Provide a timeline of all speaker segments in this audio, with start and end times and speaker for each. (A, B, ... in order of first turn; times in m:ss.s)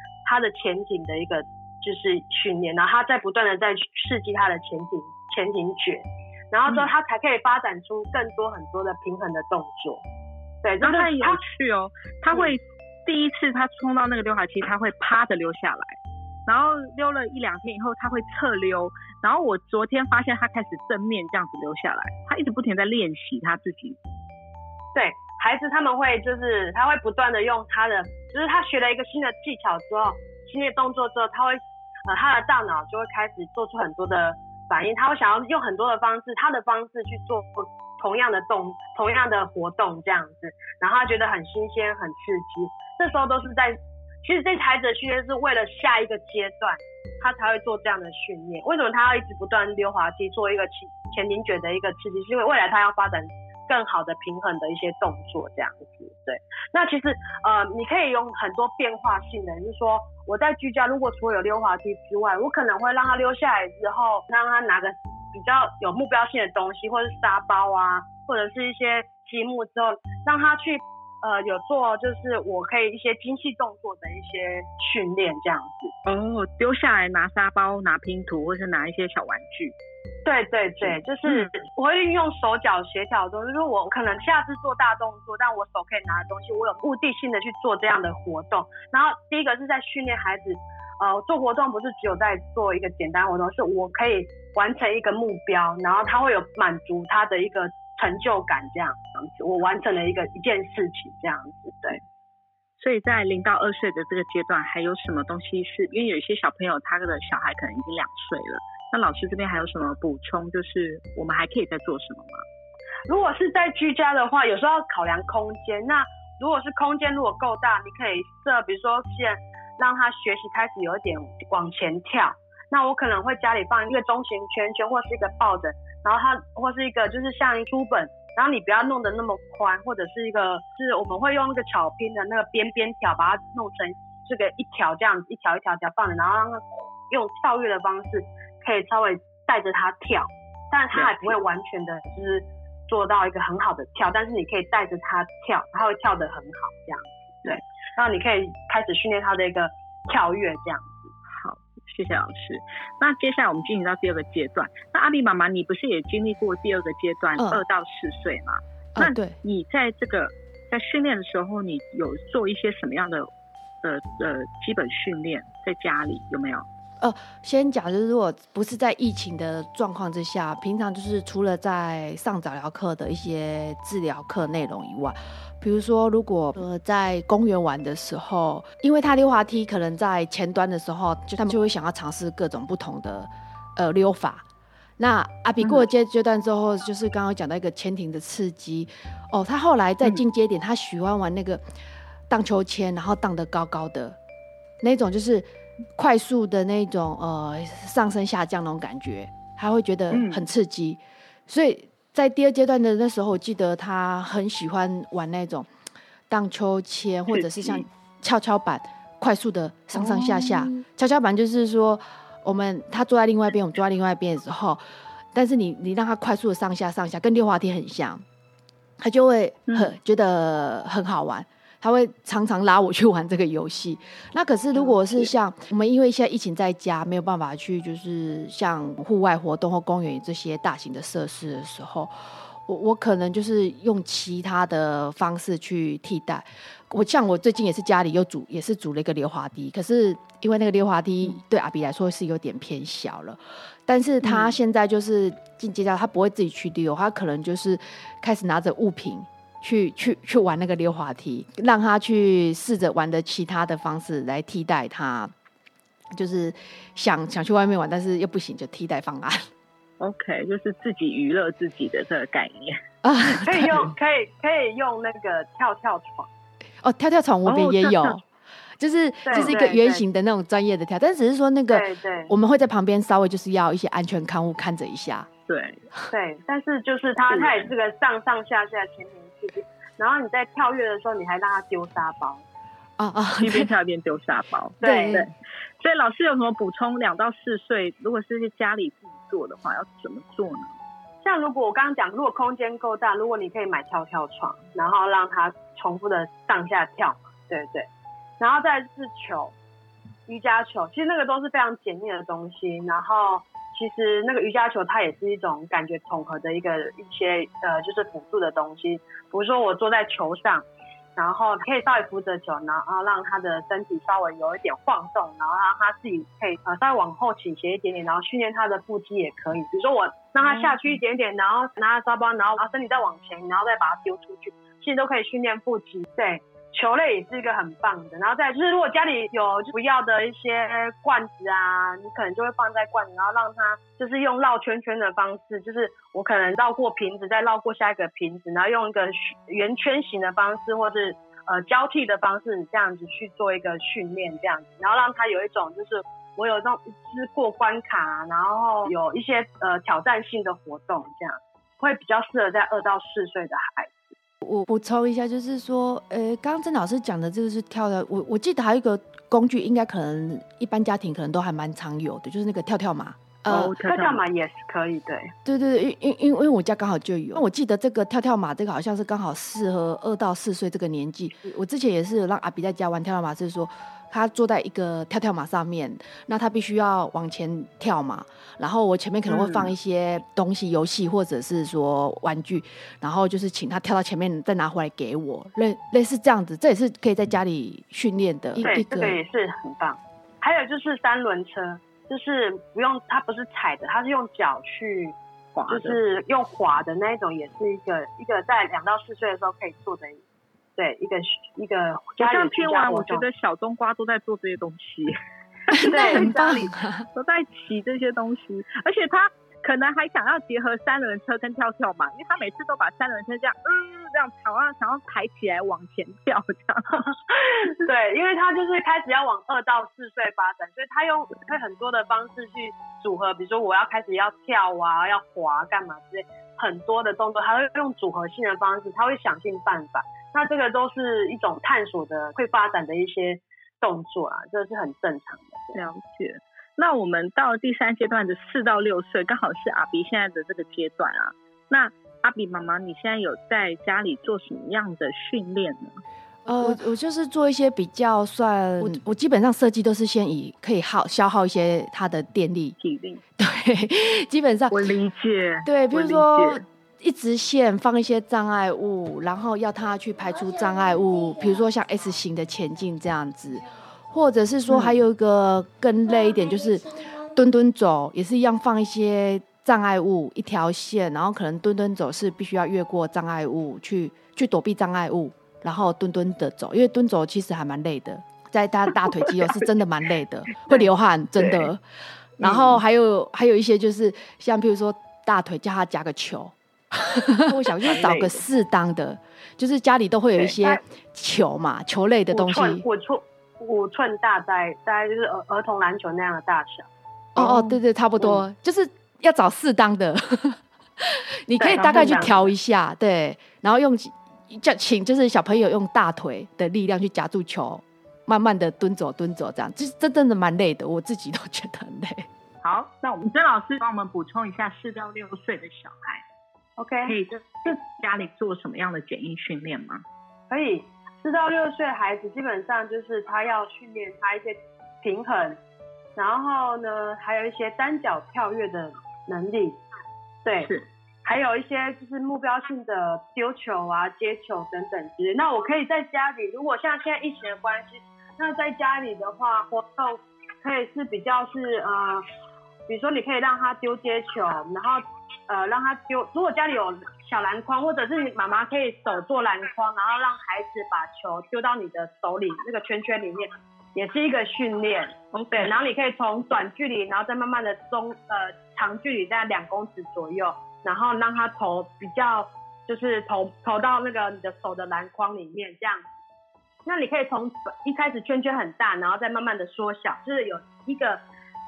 0:00.2-0:10.0 A
0:10.6-0:11.4 A
0:10.8-0:24.0 B
0:24.9-1:15.9 A
1:16.0-1:19.7 B
1:20.2-1:42.0 A
1:20.8-1:21.5 B
1:42.8-1:52.4 B
1:53.1-2:31.1 A
2:20.9-2:21.4 B
2:31.3-2:43.3 B
2:39.0-2:39.4 C
2:43.8-2:46.7 B
2:47.0-3:04.4 C
3:05.0-3:11.6 C
3:05.6-3:05.9 B
3:12.3-3:14.2 C
3:14.8-3:25.7 C
3:20.1-3:20.4 B
3:26.3-3:34.8 C
3:27.3-3:27.8 B
3:29.9-3:30.7 B
3:35.3-3:38.2 C
3:39.0-4:15.3 C
3:39.7-3:39.9 B
3:44.8-3:45.3 B
4:04.2-4:04.5 B
4:16.1-4:19.5 C
4:20.0-4:22.8 B
4:23.0-4:23.8 C
4:23.4-4:26.3 A
4:26.8-4:28.2 C
4:27.4-4:28.2 B
4:28.8-4:35.3 C
4:29.2-4:30.0 A
4:29.3-4:29.6 B
4:31.7-4:32.3 A
4:35.5-4:35.8 B
4:36.1-4:42.4 A
4:37.3-4:37.7 B
4:43.0-4:43.7 C
4:43.4-4:50.7 B
4:44.8-4:45.3 A
4:44.8-4:45.2 C
4:51.2-4:57.9 A
4:58.4-4:59.5 A
5:00.3-5:54.1 A
5:54.4-6:03.7 C
6:03.5-6:04.2 B
6:03.8-6:05.3 A
6:05.4-6:29.2 C
6:19.3-6:19.7 B
6:28.6-6:35.2 A
6:35.5-6:36.0 B
6:35.7-6:40.2 A
6:40.8-6:43.2 A
6:42.2-6:45.2 B
6:45.7-6:57.7 B
6:45.8-6:47.0 C
6:45.8-6:46.6 A
6:57.7-7:15.8 A
7:15.7-7:26.0 B
7:26.4-7:32.8 C
7:32.8-7:33.2 B
7:33.4-7:34.9 C
7:34.7-7:36.6 B
7:35.6-8:01.8 C
7:44.7-7:45.0 B
7:59.0-7:59.7 B
8:00.6-8:01.7 B
8:02.4-8:12.8 C
8:02.4-8:02.8 B
8:07.5-8:08.4 B
8:12.3-8:16.9 A
8:17.4-8:17.8 B
8:17.4-8:32.3 C
8:21.6-8:22.5 A
8:21.8-8:22.3 B
8:32.6-8:36.2 B
8:36.8-8:37.1 A
8:37.0-8:40.0 B
8:40.5-8:45.6 A
8:46.2-8:49.8 A
8:50.4-8:50.7 A
8:51.2-9:02.2 A
9:02.9-9:26.0 A
9:15.3-9:15.7 B
9:26.8-9:31.2 A